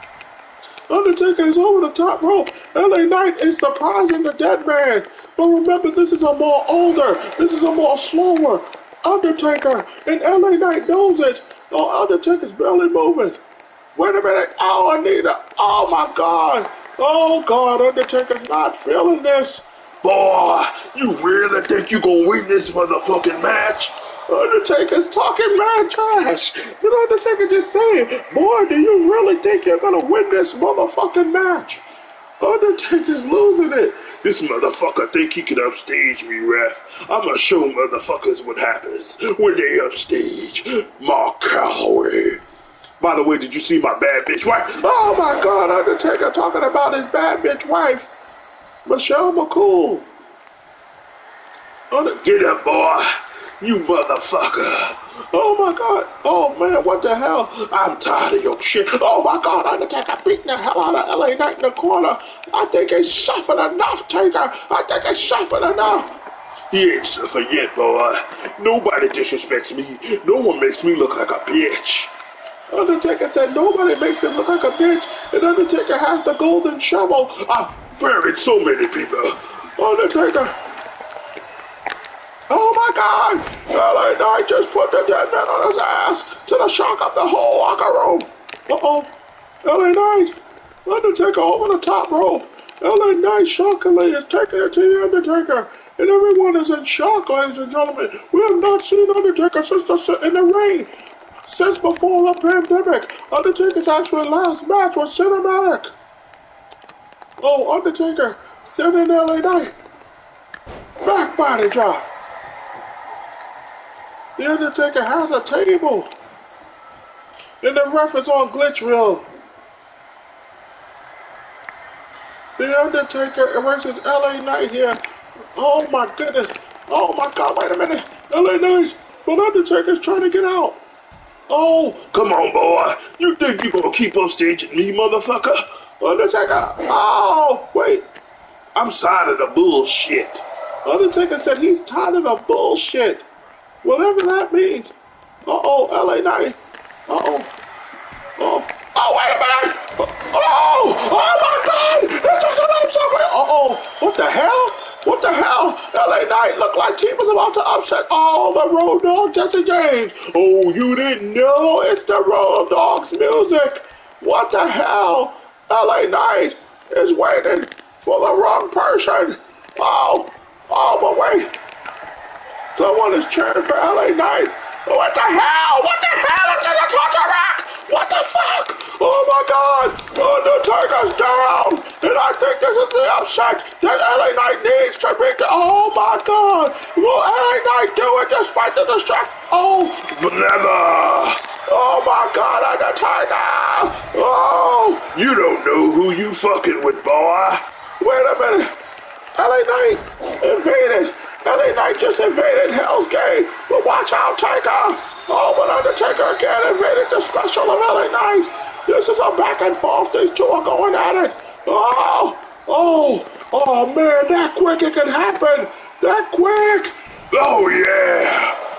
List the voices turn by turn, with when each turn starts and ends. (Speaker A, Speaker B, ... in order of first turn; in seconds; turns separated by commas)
Speaker A: 0.9-13.4, Speaker A: 13.9-19.6, Speaker B: 20.0-23.9, Speaker A: 24.3-31.8, Speaker A: 32.4-34.2, Speaker B: 34.2-42.4, Speaker B: 43.0-44.8, Speaker A: 44.7-48.1, Speaker A: 48.9-50.1, Speaker A: 51.9-52.2, Speaker B: 52.2-53.1, Speaker B: 53.6-55.0, Speaker A: 55.3-66.2, Speaker B: 58.0-58.6, Speaker B: 66.7-72.1, Speaker A: 72.7-77.9, Speaker B: 77.7-79.4, Speaker A: 79.8-80.5, Speaker A: 82.5-89.1, Speaker A: 89.6-100.9, Speaker A: 101.5-105.9, Speaker A: 107.4-109.8, Speaker A: 111.0-112.1, Speaker A: 114.4-116.1, Speaker A: 117.6-119.3, Speaker A: 122.6-125.0, Speaker A: 125.5-130.8, Speaker A: 131.5-132.2, Speaker B: 132.2-135.7, Speaker A: 136.0-138.1, Speaker B: 138.8-140.4, Speaker A: 140.8-143.3, Speaker A: 143.8-147.5, Speaker A: 148.4-171.5, Speaker A: 172.7-190.1, Speaker B: 190.1-191.4, Speaker A: 191.7-195.2, Speaker B: 195.2-197.6, Speaker A: 198.0-198.7, Speaker A: 199.3-216.9, Speaker B: 217.3-218.6